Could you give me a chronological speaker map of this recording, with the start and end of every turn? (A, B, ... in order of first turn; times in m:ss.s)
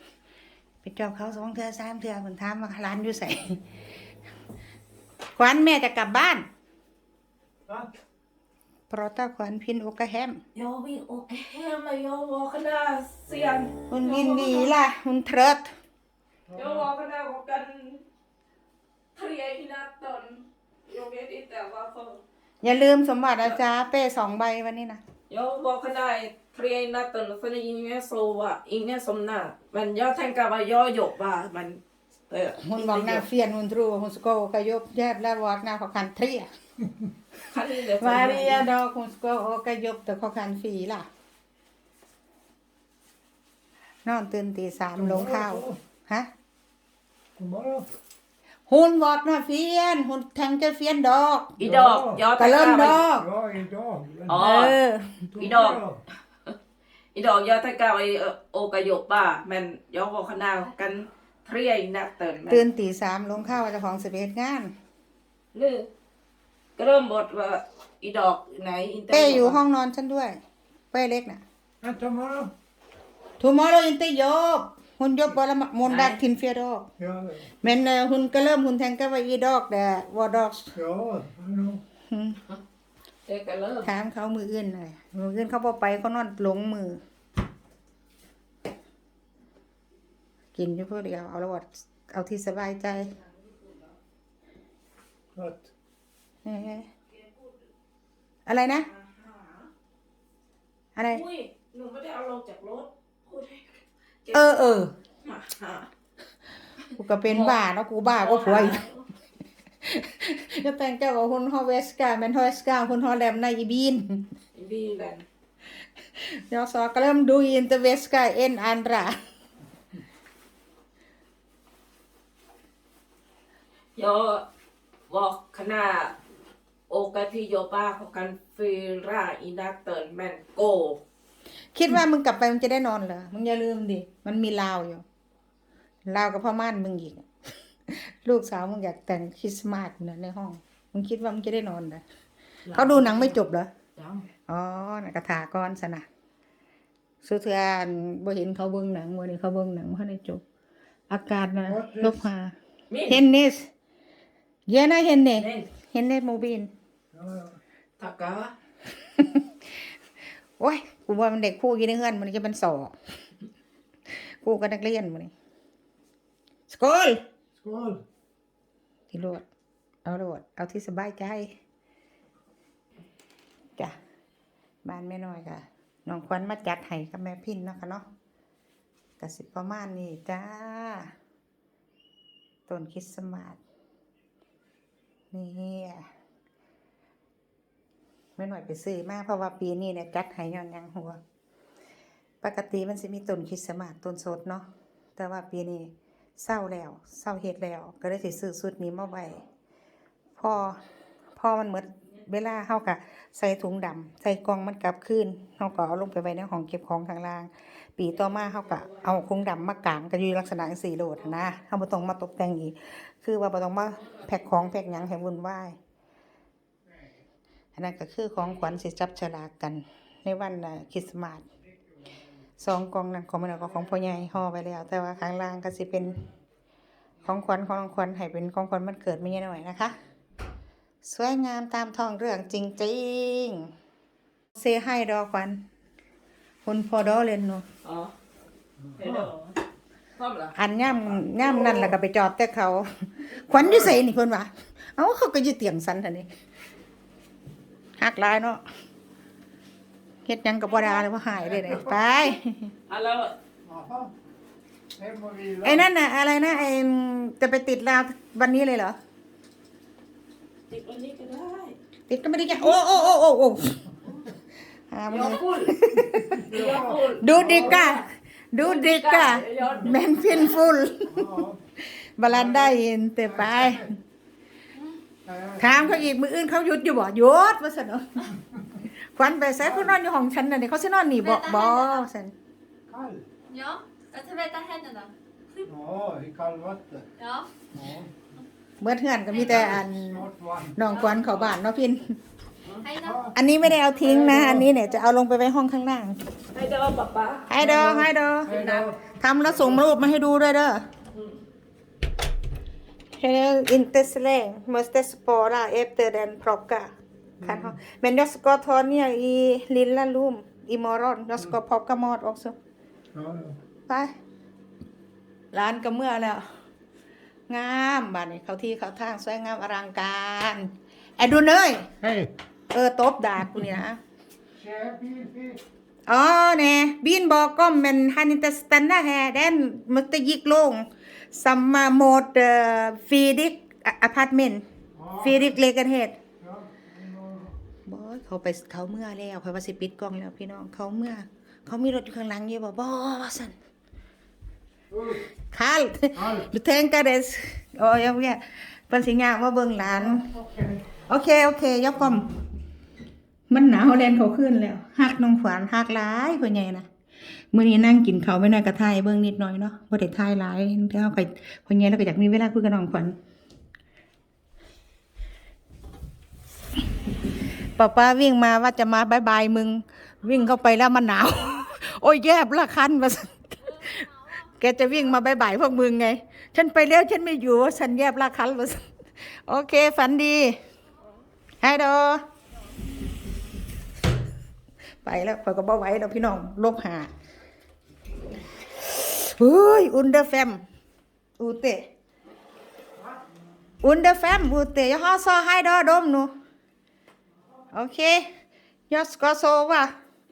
0:00.8-0:03.6 A
0:05.4-0:06.4 A
0:08.9-0:10.4 A
0:10.5-0:14.7 B
0:13.9-0:15.7 A
0:16.5-0:16.9 C
0:16.5-0:18.0 B
0:19.1-0:22.2 B
0:22.6-0:25.0 A
0:25.3-0:33.2 B
0:32.6-0:36.5 A
0:37.4-0:38.7 B
0:38.0-0:41.0 A
0:44.0-0:46.3 A
0:45.0-0:45.8 C
0:47.4-0:47.9 C
0:48.7-0:51.6 A
0:51.6-0:53.1 B
0:51.6-0:52.2 C
0:52.4-0:53.3 A
0:53.0-0:54.4 C
0:54.3-0:54.8 B
0:54.4-0:55.3 A
0:55.3-0:56.0 C
0:55.4-0:55.8 B
0:57.1-1:02.6 B
1:02.5-1:04.7 A
1:05.5-1:05.9 B
1:06.8-1:09.6 B
1:09.1-1:10.4 A
1:10.9-1:11.4 A
1:11.8-1:12.5 C
1:13.4-1:16.9 A
1:15.8-1:16.2 B
1:17.0-1:17.5 C
1:17.6-1:20.8 A
1:20.7-1:21.8 C
1:22.1-1:22.4 A
1:23.3-1:23.9 B
1:23.8-1:27.0 A
1:30.5-1:33.1 A
1:35.3-1:35.7 C
1:36.4-1:36.9 A
1:37.2-1:37.4 B
1:38.4-1:38.9 A
1:38.8-1:39.7 B
1:41.0-1:41.2 A
1:41.1-1:45.9 B
1:44.3-1:44.9 A
1:47.0-1:48.8 A
1:47.2-1:49.0 B
1:49.8-1:54.3 A
1:54.5-1:55.2 B
1:56.2-1:59.2 A
2:04.0-2:04.4 B
2:05.1-2:06.1 B
2:06.9-2:11.0 B
2:11.7-2:15.0 A
2:16.1-2:17.2 A
2:17.9-2:22.0 A
2:22.6-2:23.4 B
2:22.7-2:23.7 A
2:24.0-2:24.3 B
2:24.5-2:26.0 A
2:27.2-2:30.4 A
2:31.1-2:32.6 A
2:31.6-2:32.2 C
2:32.9-2:33.2 B
2:33.1-2:33.7 A
2:34.7-2:36.7 A
2:35.4-2:35.7 B
2:37.1-2:37.6 C
2:38.0-2:38.5 B
2:39.2-2:39.4 A
2:40.6-2:42.9 A
2:44.1-2:45.3 A
2:46.7-2:47.2 A
2:47.6-2:48.0 C
2:49.1-2:49.4 A
2:50.0-2:51.5 A
2:54.8-2:58.0 A
2:59.2-3:01.1 A
3:02.7-3:03.6 A
3:05.3-3:06.1 A
3:08.4-3:11.2 A
3:12.4-3:19.4 A
3:20.4-3:20.8 A
3:21.4-3:35.8 A
3:28.6-3:29.0 B
3:37.8-3:41.4 A
3:42.6-3:46.2 A
3:47.2-3:49.9 A
3:51.0-3:53.7 A
3:54.5-3:55.6 A
3:56.6-3:57.6 A
3:57.8-3:58.1 B
3:59.0-3:59.6 B
4:00.2-4:00.5 B
4:00.5-4:06.3 A
4:08.0-4:08.6 A
4:10.2-4:12.7 A
4:11.5-4:12.0 C
4:12.9-4:13.3 B
4:13.6-4:14.1 C
4:15.0-4:15.9 C
4:15.6-4:19.0 A
4:20.7-4:21.8 B
4:22.1-4:23.9 A
4:22.6-4:23.0 B
4:24.9-4:34.0 A
4:25.1-4:25.8 B
4:26.3-4:27.8 C
4:26.5-4:28.0 B
4:28.6-4:30.6 B
4:31.1-4:31.6 C
4:32.3-4:32.7 C
4:33.4-4:33.8 C
4:35.2-4:36.1 C
4:35.6-4:38.3 A
4:39.2-4:42.3 A
4:39.6-4:39.9 C
4:41.2-4:42.0 D
4:42.9-4:43.2 C
4:43.5-4:45.1 D
4:45.6-4:47.1 C
4:47.2-4:47.5 D
4:47.7-4:48.1 C
4:48.8-4:52.2 A
4:49.4-4:50.8 C
4:52.8-4:53.2 D
4:52.9-4:54.7 C
4:53.3-4:56.2 A
4:56.5-4:57.6 B
4:57.5-5:00.8 A
4:57.6-4:59.0 C
4:58.5-4:58.8 B
5:03.2-5:12.6 A
5:07.4-5:07.7 C
5:13.1-5:13.6 C
5:15.5-5:16.4 A
5:17.5-5:21.9 A
5:22.7-5:24.0 A
5:24.6-5:25.6 C
5:26.1-5:34.6 A
5:35.0-5:35.5 C
5:35.2-5:36.2 A
5:36.4-5:37.5 C
5:37.8-5:43.5 A
5:45.5-5:50.3 A
5:46.1-5:46.5 C
5:49.9-5:50.8 C
5:51.0-5:52.3 A
5:53.5-5:56.8 A
5:57.5-6:03.1 A
6:07.8-6:20.6 A
6:21.6-6:22.2 A
6:25.0-6:27.1 A
6:28.9-6:30.6 A
6:31.4-6:31.8 A
6:33.8-6:36.3 A
6:37.7-6:38.3 A
6:38.9-6:39.9 A